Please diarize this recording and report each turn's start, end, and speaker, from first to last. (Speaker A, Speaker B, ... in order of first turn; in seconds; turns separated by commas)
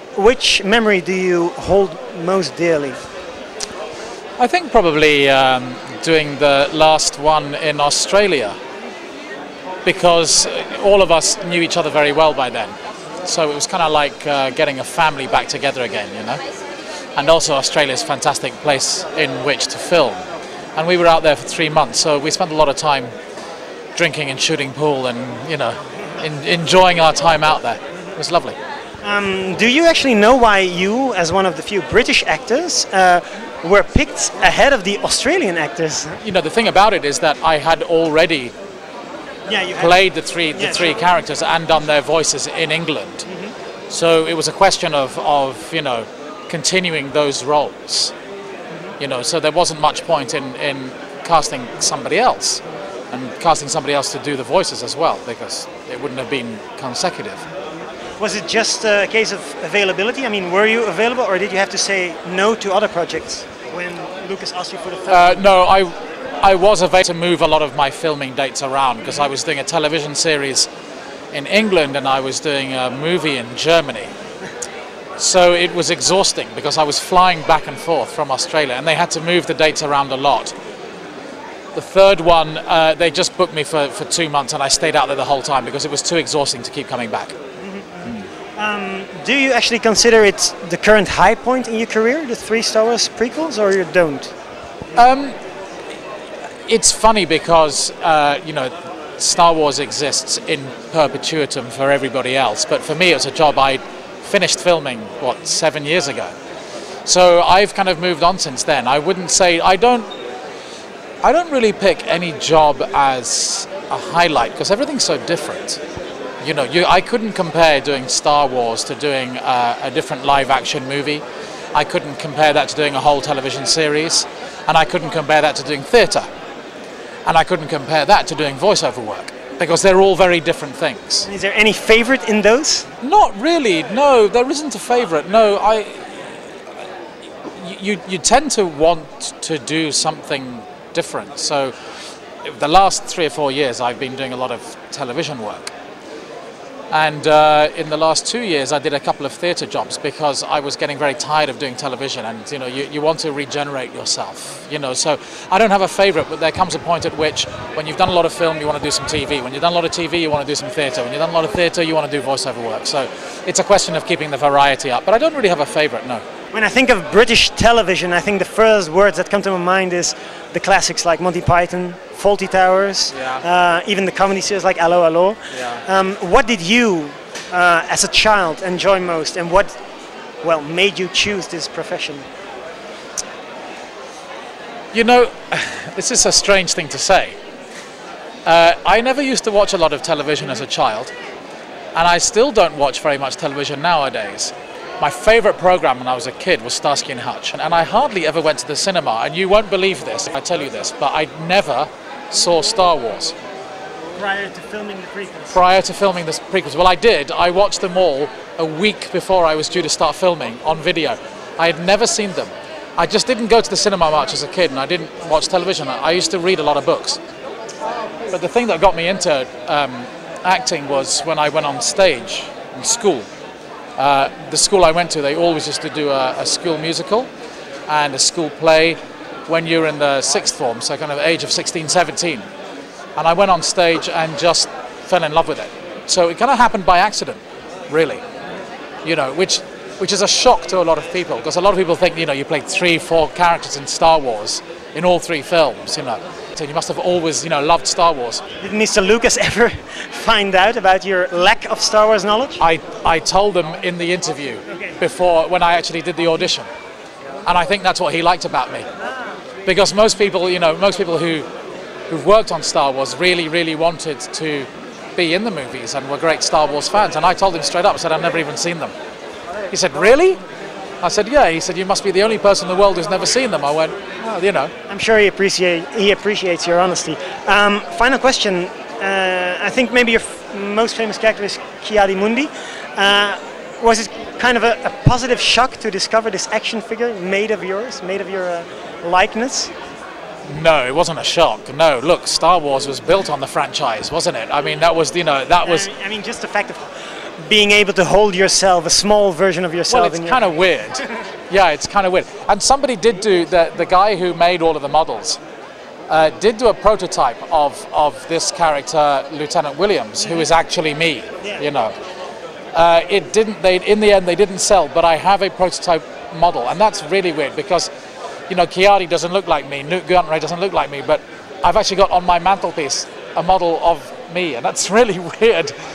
Speaker A: 0.1-3.0, Speaker B: 4.4-8.6, Speaker B: 9.8-16.4, Speaker B: 17.2-20.2, Speaker B: 20.8-23.1, Speaker B: 23.9-28.6, Speaker A: 29.0-36.2, Speaker B: 36.2-38.5, Speaker A: 39.5-41.0, Speaker B: 39.8-43.3, Speaker A: 43.3-43.5, Speaker B: 43.9-48.1, Speaker B: 49.0-57.5, Speaker A: 58.2-65.5, Speaker B: 65.1-70.7, Speaker B: 71.3-74.1, Speaker B: 75.2-80.5, Speaker B: 81.7-87.3, Speaker A: 87.6-88.0, Speaker A: 88.6-94.3, Speaker B: 94.9-95.4, Speaker B: 96.7-106.3, Speaker B: 107.0-110.1, Speaker B: 111.2-115.8, Speaker B: 116.4-126.3, Speaker B: 127.3-131.3, Speaker A: 131.2-132.9, Speaker B: 133.0-136.4, Speaker B: 137.6-141.7, Speaker B: 142.4-145.7, Speaker B: 146.9-166.2, Speaker A: 166.5-179.8, Speaker B: 173.1-173.4, Speaker B: 175.5-175.8, Speaker A: 180.4-182.3, Speaker B: 184.9-187.4, Speaker B: 188.4-191.1, Speaker B: 191.9-203.3, Speaker A: 204.2-205.6, Speaker B: 205.5-217.2, Speaker B: 218.3-223.3, Speaker B: 224.0-227.3, Speaker B: 227.9-232.5, Speaker B: 233.2-238.2, Speaker B: 239.0-248.4, Speaker A: 248.6-252.6, Speaker B: 252.6-256.7, Speaker B: 257.5-258.9, Speaker B: 259.6-261.5, Speaker B: 262.1-268.9, Speaker B: 269.7-270.4, Speaker B: 271.0-274.7, Speaker A: 274.9-289.7, Speaker B: 290.5-295.9, Speaker A: 295.6-300.6, Speaker B: 299.9-305.4, Speaker B: 306.1-311.9, Speaker B: 312.7-317.9, Speaker B: 318.5-325.8